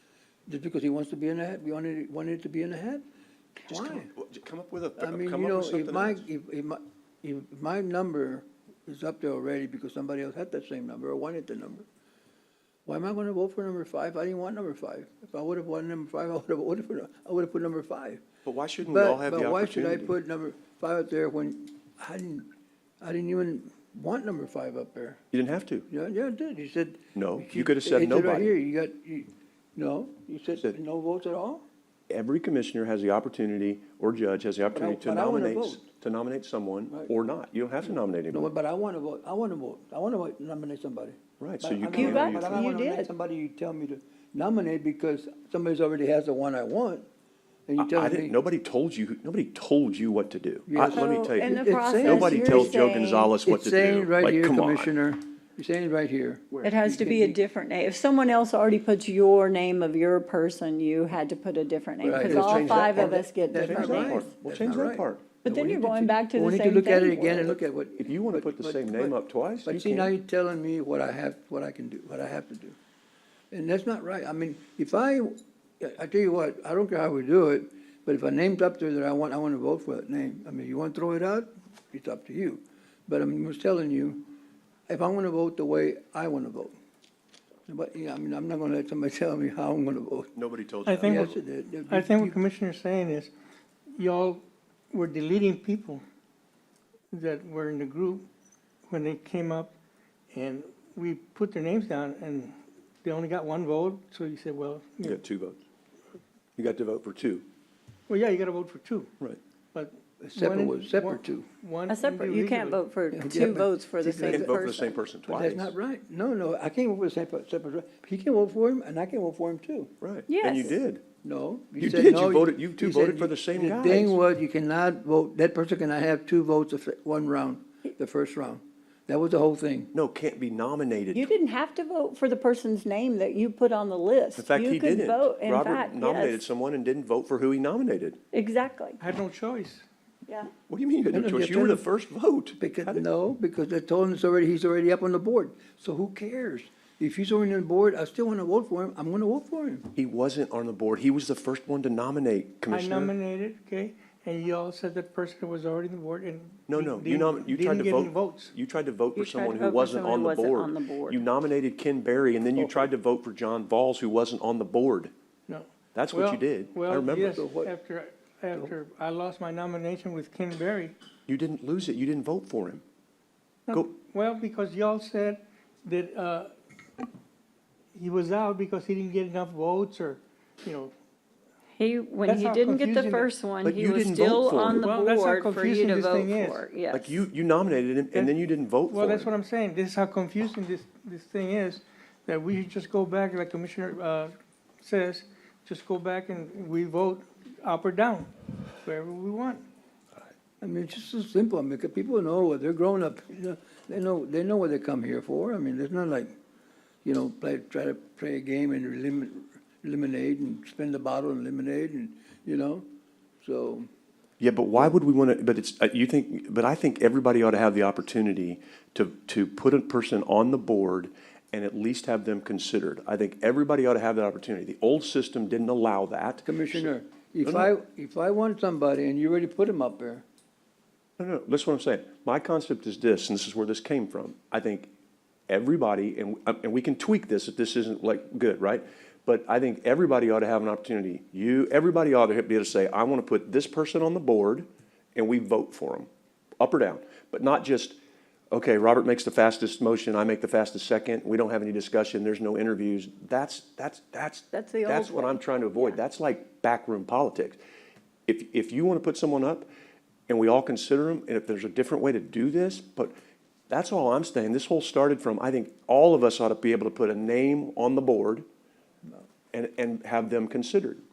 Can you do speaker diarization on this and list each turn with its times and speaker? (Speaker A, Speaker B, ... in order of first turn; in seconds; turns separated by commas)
Speaker A: 0.5-3.0, Speaker A: 3.6-4.1, Speaker B: 3.7-6.2, Speaker A: 5.0-11.8, Speaker A: 12.8-18.2, Speaker B: 18.4-20.1, Speaker A: 18.8-22.5, Speaker A: 23.0-25.2, Speaker B: 25.3-25.9, Speaker A: 25.9-31.6, Speaker B: 27.1-28.5, Speaker B: 32.1-38.5, Speaker A: 34.7-35.8, Speaker A: 38.3-47.1, Speaker B: 41.4-42.6, Speaker C: 41.9-43.1, Speaker A: 47.7-48.4, Speaker B: 47.8-54.9, Speaker A: 50.7-52.8, Speaker C: 50.9-53.3, Speaker A: 53.4-57.4, Speaker C: 56.6-64.3, Speaker A: 62.0-72.8, Speaker B: 62.2-65.4, Speaker C: 65.4-67.5, Speaker B: 68.0-70.1, Speaker A: 73.5-84.4, Speaker A: 84.9-86.7, Speaker A: 87.7-90.3, Speaker B: 90.3-91.4, Speaker D: 90.8-91.3, Speaker A: 91.0-92.4, Speaker D: 91.9-93.3, Speaker D: 93.9-96.0, Speaker D: 97.1-98.3, Speaker D: 98.9-99.7, Speaker D: 100.3-105.2, Speaker B: 105.0-105.6, Speaker B: 106.5-107.4, Speaker D: 108.1-109.1, Speaker D: 109.7-112.8, Speaker A: 110.2-111.5, Speaker C: 111.9-114.9, Speaker A: 113.1-114.6, Speaker B: 114.2-115.7, Speaker A: 115.2-119.9, Speaker B: 120.0-121.0, Speaker C: 120.3-120.8, Speaker A: 121.2-129.9, Speaker B: 121.8-124.2, Speaker B: 129.9-131.3, Speaker C: 131.1-136.4, Speaker B: 134.4-138.2, Speaker C: 138.3-139.0, Speaker D: 139.0-139.8, Speaker B: 140.7-143.0, Speaker A: 141.1-141.9, Speaker A: 142.6-149.9, Speaker B: 149.9-153.1, Speaker D: 152.7-158.5, Speaker B: 156.7-165.1, Speaker C: 159.2-161.2, Speaker D: 165.5-170.9, Speaker B: 165.9-167.4, Speaker A: 167.3-167.7, Speaker B: 171.3-172.8, Speaker D: 173.7-176.5, Speaker D: 177.9-180.9, Speaker C: 181.7-187.2, Speaker D: 182.2-183.3, Speaker B: 183.6-184.9, Speaker D: 184.8-186.7, Speaker B: 186.9-189.3, Speaker D: 188.9-198.3, Speaker D: 198.8-199.6, Speaker A: 200.6-206.3, Speaker A: 207.0-212.8, Speaker A: 213.4-213.9, Speaker B: 214.4-226.9, Speaker A: 226.4-230.2, Speaker B: 227.4-227.7, Speaker B: 231.2-234.9, Speaker B: 235.5-246.1, Speaker B: 246.6-248.0, Speaker B: 248.5-257.6, Speaker C: 254.5-256.0, Speaker B: 258.3-259.7, Speaker B: 260.3-263.1, Speaker B: 263.7-268.4, Speaker B: 269.5-271.0